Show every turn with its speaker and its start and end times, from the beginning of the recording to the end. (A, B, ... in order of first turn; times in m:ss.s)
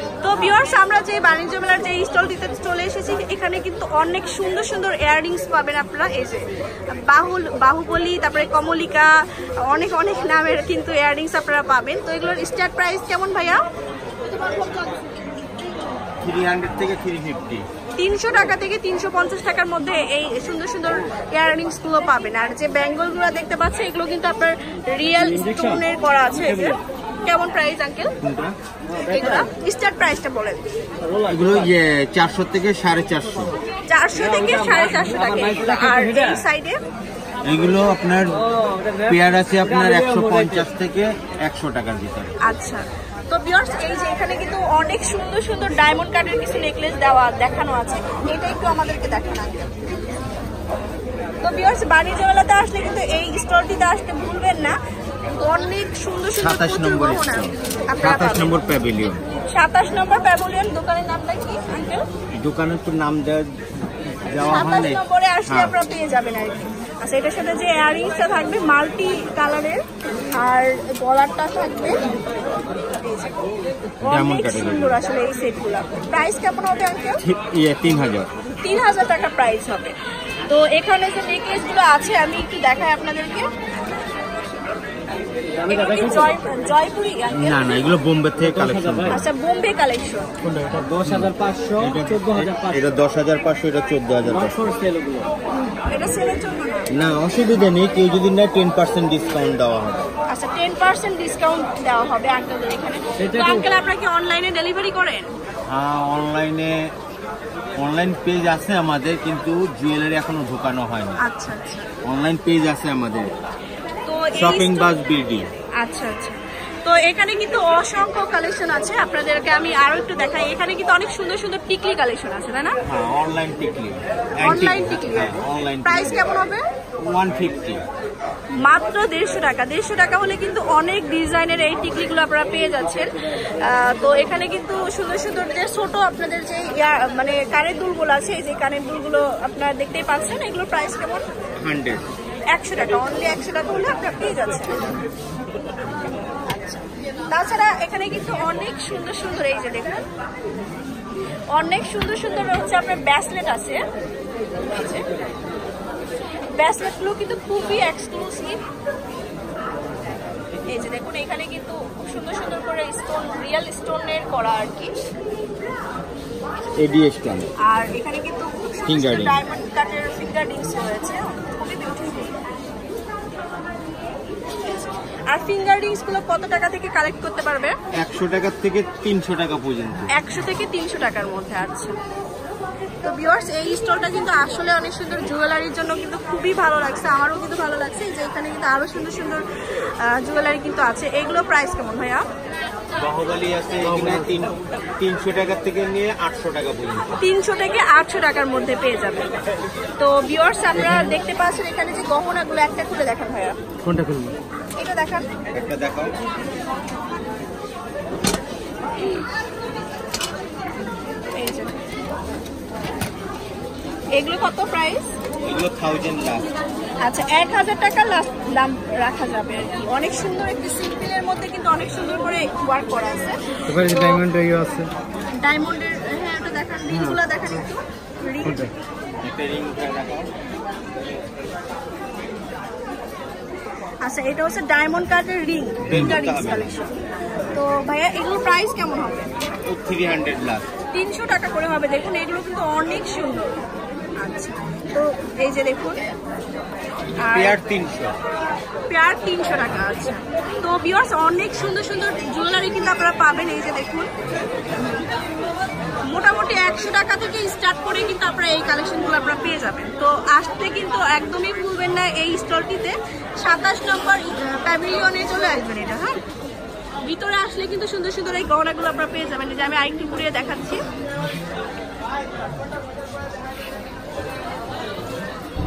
0:00.2-0:06.5 A
0:07.0-0:09.1 A
0:09.6-0:13.6 A
0:14.4-0:14.9 A
0:16.2-0:17.6 B
0:18.0-0:28.1 A
0:25.3-0:25.8 C
0:26.4-0:26.8 C
0:28.2-0:28.6 B
0:28.9-0:29.5 C
0:29.0-0:30.6 A
0:31.0-0:31.7 C
0:31.3-0:33.5 B
0:33.9-0:36.8 A
0:34.1-0:36.4 C
0:37.4-0:38.4 B
0:38.6-0:40.6 C
0:39.0-0:42.3 B
0:42.4-0:49.7 A
0:51.4-0:54.8 A
0:55.4-0:58.5 A
0:56.4-0:59.2 B
0:59.5-1:02.1 A
1:02.4-1:03.5 B
1:04.3-1:05.8 B
1:04.4-1:09.8 A
1:10.4-1:12.0 A
1:13.0-1:13.3 A
1:14.0-1:15.0 B
1:14.0-1:17.2 A
1:17.2-1:18.3 B
1:18.6-1:20.0 A
1:20.5-1:23.5 A
1:25.5-1:26.4 C
1:25.7-1:27.9 A
1:27.3-1:29.3 B
1:28.4-1:29.2 C
1:29.1-1:30.3 A
1:30.4-1:32.9 C
1:31.0-1:34.6 B
1:34.3-1:35.3 C
1:35.7-1:36.9 A
1:36.9-1:40.1 B
1:40.3-1:45.3 A
1:43.2-1:43.6 C
1:45.7-1:46.8 B
1:47.8-1:51.2 B
1:51.2-1:51.9 A
1:52.0-1:53.3 B
1:54.0-1:54.9 A
1:54.4-1:55.5 B
1:55.8-2:02.7 A
2:02.8-2:06.3 B
2:04.4-2:06.6 A
2:07.0-2:07.8 B
2:08.6-2:13.1 A
2:13.6-2:21.3 A
2:21.6-2:22.1 B
2:22.5-2:24.9 A
2:26.5-2:30.0 A
2:31.5-2:33.8 A
2:34.7-2:35.0 A
2:36.5-2:38.6 A
2:40.7-2:45.0 A
2:46.8-2:47.5 B
2:47.7-2:52.4 A
2:48.9-2:49.4 B
2:55.3-2:57.7 A
2:58.0-3:00.1 B
3:00.1-3:02.0 A
3:03.0-3:12.2 A
3:13.0-3:17.2 B
3:17.2-3:19.3 A
3:20.0-3:23.6 A
3:24.0-3:24.3 B
3:24.8-3:25.3 A
3:25.5-3:26.2 B
3:31.3-3:31.8 A
3:34.1-3:35.1 A
3:35.4-3:36.5 B
3:37.0-3:44.2 A
3:43.7-3:44.9 C
3:45.3-3:48.7 A
3:49.2-3:50.3 B
3:54.0-3:57.0 A
3:55.8-3:56.8 B
3:57.5-3:59.3 A
3:59.6-4:00.7 B
4:00.9-4:03.6 A
4:04.2-4:06.1 A
4:07.2-4:07.6 A
4:07.3-4:08.2 B
4:08.9-4:14.1 A
4:16.1-4:26.2 A
4:27.1-4:30.8 A